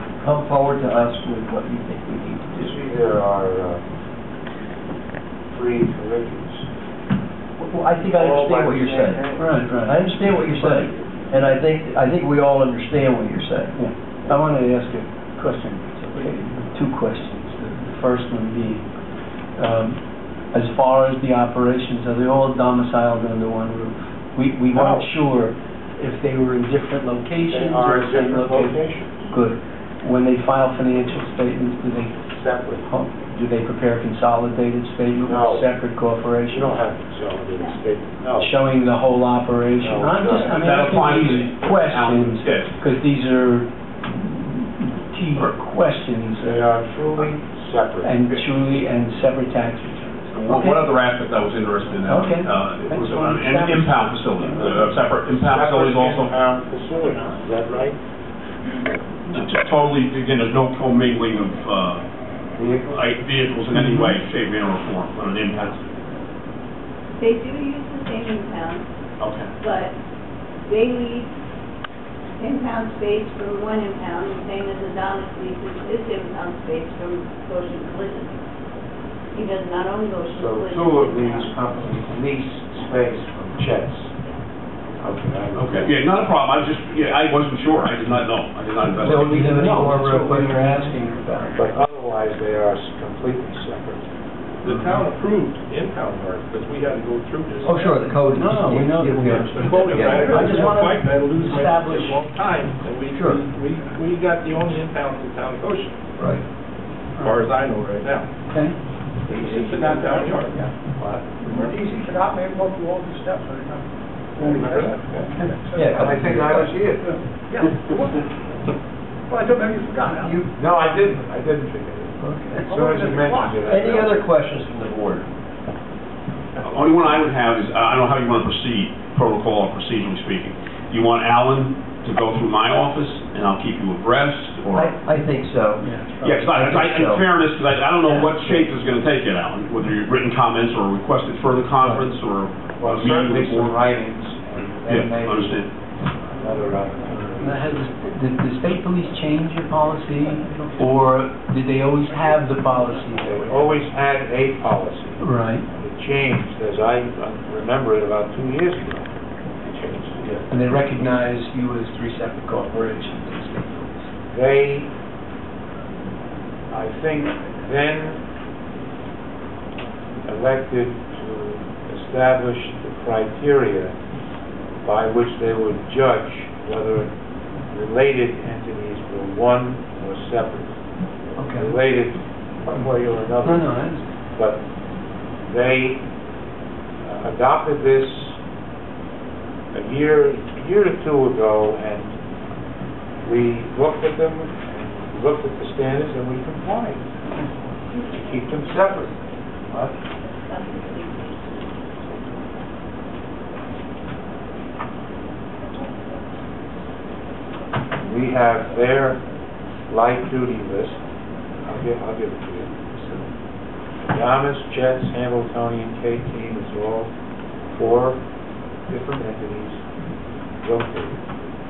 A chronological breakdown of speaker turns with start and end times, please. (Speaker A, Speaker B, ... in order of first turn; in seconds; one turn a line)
Speaker A: 0.2-2.8
Speaker B: 2.6-3.8
Speaker B: 5.5-6.7
Speaker A: 7.6-13.8
Speaker B: 8.1-9.4
Speaker C: 9.4-10.9
Speaker C: 13.8-18.8
Speaker A: 16.1-16.6
Speaker C: 19.6-20.0
Speaker C: 20.5-28.8
Speaker B: 24.7-25.1
Speaker B: 27.5-29.2
Speaker C: 29.3-32.2
Speaker B: 32.3-32.9
Speaker C: 32.8-36.8
Speaker B: 35.2-35.7
Speaker B: 36.5-38.5
Speaker C: 38.4-46.6
Speaker B: 39.8-41.5
Speaker D: 40.5-42.8
Speaker B: 46.4-48.4
Speaker C: 48.0-50.9
Speaker D: 50.3-56.4
Speaker C: 52.1-54.9
Speaker B: 55.3-58.0
Speaker D: 59.3-62.1
Speaker B: 62.6-63.0
Speaker D: 62.8-66.0
Speaker C: 63.7-64.2
Speaker E: 67.2-68.9
Speaker D: 69.2-69.5
Speaker E: 69.6-70.0
Speaker E: 70.7-71.3
Speaker E: 72.4-78.3
Speaker E: 79.3-81.6
Speaker B: 80.3-84.2
Speaker B: 85.0-85.9
Speaker D: 85.5-89.9
Speaker A: 89.0-90.9
Speaker C: 89.1-91.6
Speaker B: 91.6-94.1
Speaker F: 94.6-98.0
Speaker A: 97.6-100.6
Speaker C: 98.4-102.3
Speaker F: 99.3-106.0
Speaker A: 103.1-103.4
Speaker A: 106.2-106.4
Speaker F: 107.2-108.3
Speaker C: 108.5-108.8
Speaker F: 109.3-110.7
Speaker B: 109.3-110.1
Speaker G: 109.9-110.3
Speaker B: 111.0-111.4
Speaker G: 111.5-116.2
Speaker F: 114.4-115.0
Speaker B: 114.4-117.2
Speaker A: 115.7-116.7
Speaker G: 117.5-118.2
Speaker G: 119.3-121.1
Speaker A: 120.1-120.5
Speaker B: 120.6-124.3
Speaker A: 122.2-122.7
Speaker G: 122.5-123.6
Speaker A: 123.6-125.3
Speaker D: 126.6-134.9
Speaker A: 134.7-137.3
Speaker C: 135.8-136.4
Speaker D: 136.2-143.8
Speaker A: 138.1-138.6
Speaker B: 142.8-145.7
Speaker D: 144.8-145.7
Speaker B: 146.3-147.8
Speaker C: 147.4-153.4
Speaker F: 152.1-153.7
Speaker B: 153.2-160.4
Speaker C: 155.2-155.7
Speaker C: 160.5-164.0
Speaker B: 164.3-164.9
Speaker B: 166.7-168.2
Speaker B: 170.2-173.9
Speaker B: 174.8-177.1
Speaker B: 177.7-180.8
Speaker B: 181.3-183.7
Speaker C: 181.4-181.7
Speaker C: 183.4-184.0
Speaker B: 184.4-184.6
Speaker B: 185.5-186.0
Speaker B: 187.1-188.4
Speaker B: 189.7-192.1
Speaker B: 193.2-197.1
Speaker B: 198.1-200.0
Speaker E: 200.4-201.7
Speaker B: 208.0-209.2
Speaker B: 209.9-211.0
Speaker B: 211.6-212.9
Speaker B: 214.1-217.1
Speaker B: 217.7-218.2
Speaker B: 218.9-219.8
Speaker B: 220.6-221.2